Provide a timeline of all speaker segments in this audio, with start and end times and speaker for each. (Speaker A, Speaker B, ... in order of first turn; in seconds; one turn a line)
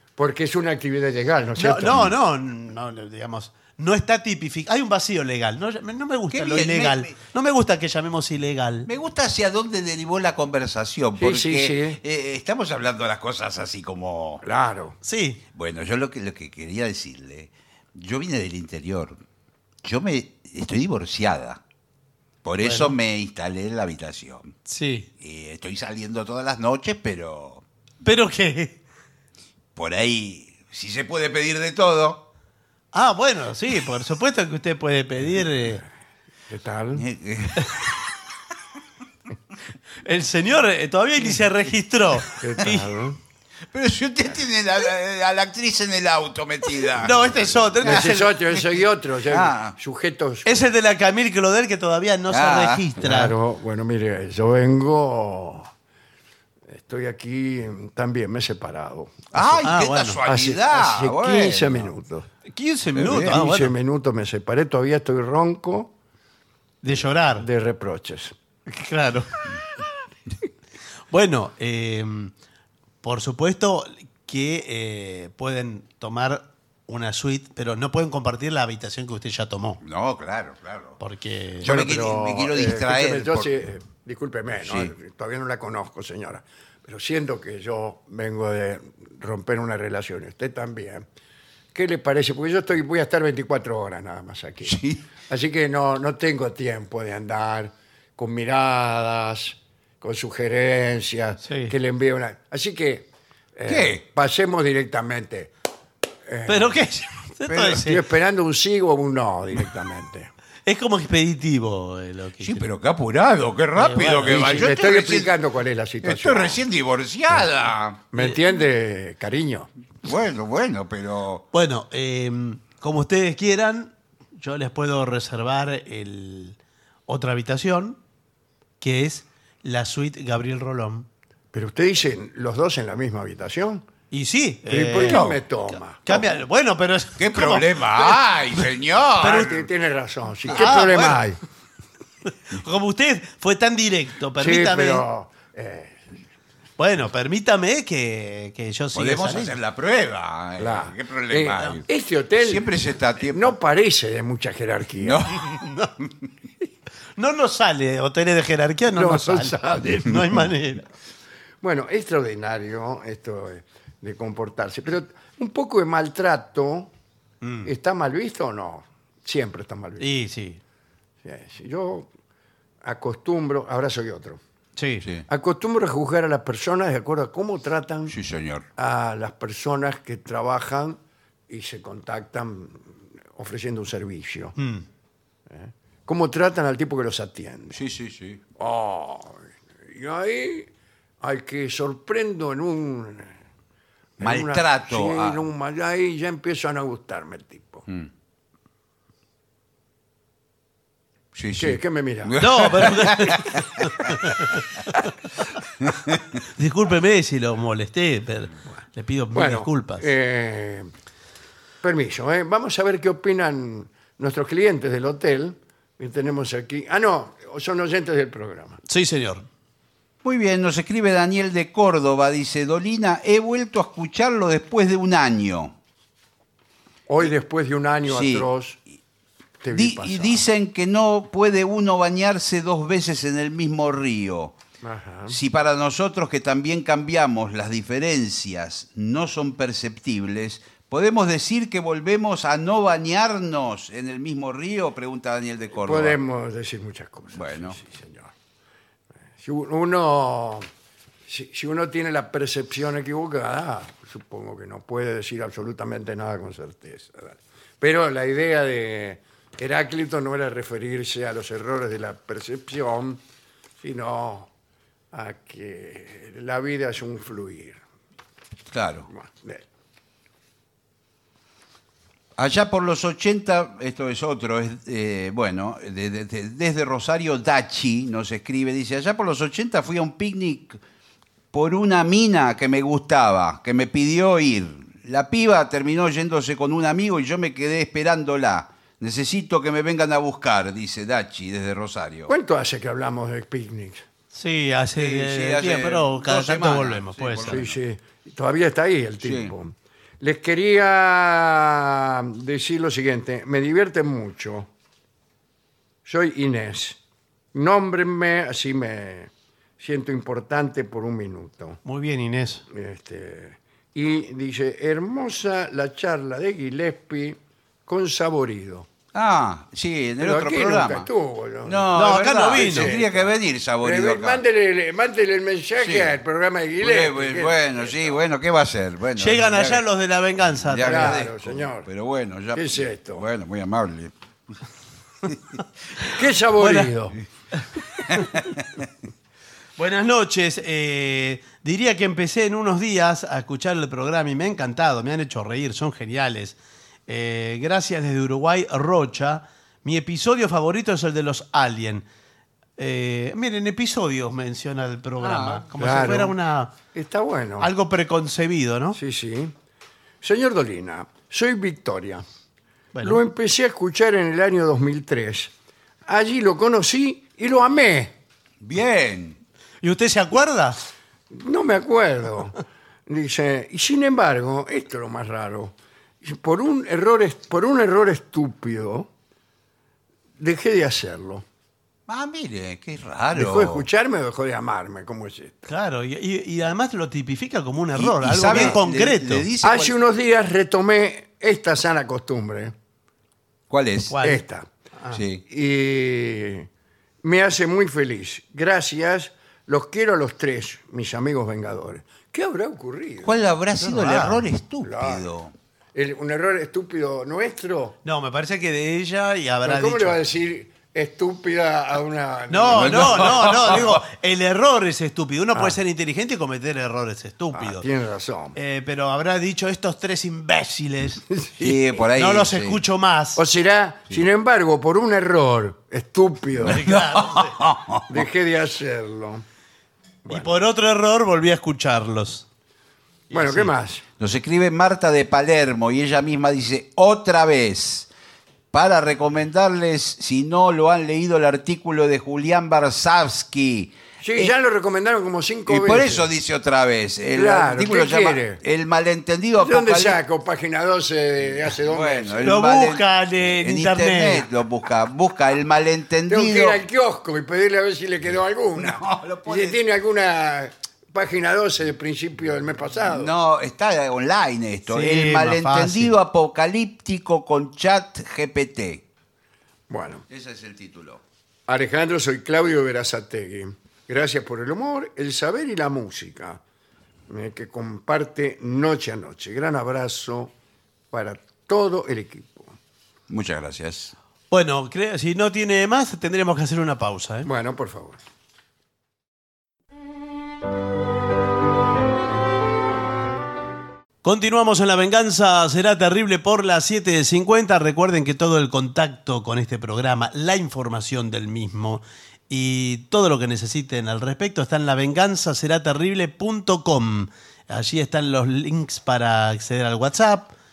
Speaker A: 0.2-2.1
Speaker B: 1.6-8.9
Speaker C: 6.3-7.1
Speaker C: 8.8-14.4
Speaker A: 11.2-12.0
Speaker A: 14.4-15.0
Speaker B: 15.0-15.4
Speaker C: 15.5-19.2
Speaker C: 19.8-21.6
Speaker C: 22.4-24.5
Speaker B: 22.6-22.9
Speaker B: 24.6-25.1
Speaker C: 25.2-27.6
Speaker B: 28.0-28.8
Speaker C: 29.8-32.2
Speaker B: 32.9-35.8
Speaker A: 36.5-37.0
Speaker C: 37.0-38.0
Speaker B: 40.0-42.9
Speaker A: 42.4-43.2
Speaker C: 43.7-48.1
Speaker B: 47.0-48.3
Speaker A: 47.8-50.6
Speaker C: 49.3-49.7
Speaker B: 50.4-53.3
Speaker C: 52.3-52.8
Speaker A: 53.0-55.7
Speaker A: 56.7-59.6
Speaker C: 59.3-61.9
Speaker B: 59.6-60.2
Speaker A: 60.2-62.3
Speaker B: 62.5-63.7
Speaker C: 63.0-63.4
Speaker A: 63.0-65.9
Speaker B: 66.8-67.5
Speaker A: 67.3-68.3
Speaker B: 68.7-69.5
Speaker B: 71.1-72.3
Speaker B: 73.0-79.8
Speaker C: 79.8-81.0
Speaker B: 81.0-81.7
Speaker C: 81.6-83.5
Speaker A: 81.6-91.0
Speaker C: 84.6-84.9
Speaker A: 91.7-105.5
Speaker C: 94.7-95.0
Speaker B: 101.4-101.7
Speaker C: 103.7-104.0
Speaker A: 106.2-106.9
Speaker B: 106.5-108.0
Speaker C: 107.5-107.8
Speaker A: 107.8-110.3
Speaker B: 110.7-112.6
Speaker C: 112.4-115.3
Speaker B: 113.8-114.7
Speaker A: 114.2-116.6
Speaker C: 116.0-118.0
Speaker A: 118.1-119.7
Speaker C: 120.0-121.4
Speaker B: 121.5-126.6
Speaker B: 127.1-128.0
Speaker B: 128.8-131.1
Speaker A: 131.5-133.8
Speaker B: 134.1-135.2
Speaker A: 134.7-136.0
Speaker C: 135.0-135.4
Speaker B: 136.0-138.2
Speaker C: 137.2-139.6
Speaker B: 139.2-139.5
Speaker A: 139.2-141.4
Speaker B: 140.5-141.2
Speaker B: 142.5-145.0
Speaker A: 144.4-146.0
Speaker B: 146.8-149.6
Speaker C: 148.9-151.8
Speaker A: 150.6-155.2
Speaker C: 152.4-153.5
Speaker C: 155.0-155.6
Speaker B: 155.4-155.9
Speaker B: 157.2-160.8
Speaker A: 158.9-160.2
Speaker A: 161.6-166.9
Speaker B: 167.4-167.7
Speaker A: 167.6-170.1
Speaker B: 170.0-170.6
Speaker A: 171.2-172.1
Speaker A: 172.8-174.4
Speaker B: 174.8-175.1
Speaker A: 175.3-178.1
Speaker C: 178.1-178.7
Speaker A: 178.8-184.5
Speaker B: 184.6-184.8
Speaker A: 185.5-187.8
Speaker C: 187.7-188.4
Speaker A: 188.6-190.7
Speaker A: 191.2-193.3
Speaker A: 194.2-197.8
Speaker C: 194.2-195.4
Speaker C: 201.3-204.2
Speaker A: 201.6-202.9
Speaker B: 202.4-204.6
Speaker C: 205.8-206.2
Speaker B: 206.4-210.1
Speaker A: 209.3-210.9
Speaker A: 211.8-218.8
Speaker B: 218.9-219.4
Speaker C: 220.2-225.7
Speaker A: 227.1-228.8
Speaker C: 228.1-228.5
Speaker A: 229.6-230.4
Speaker C: 229.7-234.6
Speaker A: 234.8-235.4
Speaker C: 235.3-246.2
Speaker A: 245.7-248.3
Speaker C: 247.3-247.8
Speaker A: 249.4-250.7
Speaker A: 251.2-263.2
Speaker A: 263.8-264.5
Speaker A: 265.1-267.8
Speaker C: 268.7-269.1
Speaker A: 269.1-269.6
Speaker C: 272.4-280.8
Speaker C: 281.5-292.3
Speaker A: 292.3-294.1
Speaker B: 294.3-297.6
Speaker C: 294.9-297.8
Speaker A: 297.5-304.7
Speaker C: 299.2-299.5
Speaker A: 306.0-307.0
Speaker A: 307.5-311.8
Speaker B: 311.8-312.6
Speaker A: 312.7-318.9
Speaker C: 319.1-321.1
Speaker A: 320.2-328.2
Speaker C: 321.6-324.4
Speaker B: 321.9-322.9
Speaker C: 325.8-326.1
Speaker C: 326.8-329.8
Speaker B: 329.2-331.2
Speaker C: 330.5-334.1
Speaker A: 330.8-331.9
Speaker A: 332.5-333.2
Speaker C: 335.3-335.6
Speaker A: 336.1-337.2
Speaker B: 336.6-336.9
Speaker B: 339.8-352.1
Speaker B: 352.8-356.7
Speaker C: 355.2-355.7
Speaker A: 355.8-356.3
Speaker A: 356.9-357.7
Speaker B: 357.6-359.0
Speaker A: 358.9-359.5
Speaker A: 360.2-362.2
Speaker B: 362.9-363.2
Speaker A: 363.0-365.5
Speaker A: 366.0-368.1
Speaker C: 368.6-369.4
Speaker B: 369.8-370.8
Speaker A: 371.3-379.1
Speaker A: 380.4-381.4
Speaker C: 382.1-383.8
Speaker A: 383.3-385.7
Speaker B: 385.7-389.4
Speaker C: 387.9-389.9
Speaker A: 388.5-388.8
Speaker A: 389.6-392.7
Speaker C: 393.7-394.2
Speaker B: 394.1-394.4
Speaker A: 394.2-394.7
Speaker C: 395.1-395.4
Speaker A: 395.4-396.7
Speaker A: 397.2-403.4
Speaker C: 403.2-405.5
Speaker B: 403.8-404.4
Speaker A: 404.8-405.3
Speaker A: 405.9-408.0
Speaker B: 408.0-410.2
Speaker A: 409.6-413.8
Speaker B: 412.5-417.9
Speaker C: 412.7-414.0
Speaker A: 417.5-418.6
Speaker B: 418.5-421.3
Speaker A: 421.3-421.8
Speaker C: 421.6-422.8
Speaker B: 422.1-423.4
Speaker A: 423.4-426.8
Speaker B: 426.6-427.6
Speaker C: 426.6-428.2
Speaker A: 428.1-429.4
Speaker A: 430.2-430.6
Speaker B: 430.3-432.4
Speaker B: 433.3-433.7
Speaker A: 433.3-434.0
Speaker C: 434.2-438.1
Speaker C: 438.7-444.5
Speaker A: 444.2-446.3
Speaker C: 445.7-450.2
Speaker A: 447.3-448.6
Speaker A: 449.6-452.5
Speaker C: 451.7-456.8
Speaker B: 452.4-454.5
Speaker A: 456.3-463.3
Speaker C: 458.8-459.8
Speaker C: 463.1-469.0
Speaker B: 464.9-466.1
Speaker A: 469.9-470.2
Speaker C: 470.3-471.2
Speaker A: 471.7-476.6
Speaker A: 477.3-480.5
Speaker A: 481.1-482.8
Speaker C: 483.3-484.1
Speaker B: 484.5-487.5
Speaker A: 487.4-488.2
Speaker B: 494.2-510.5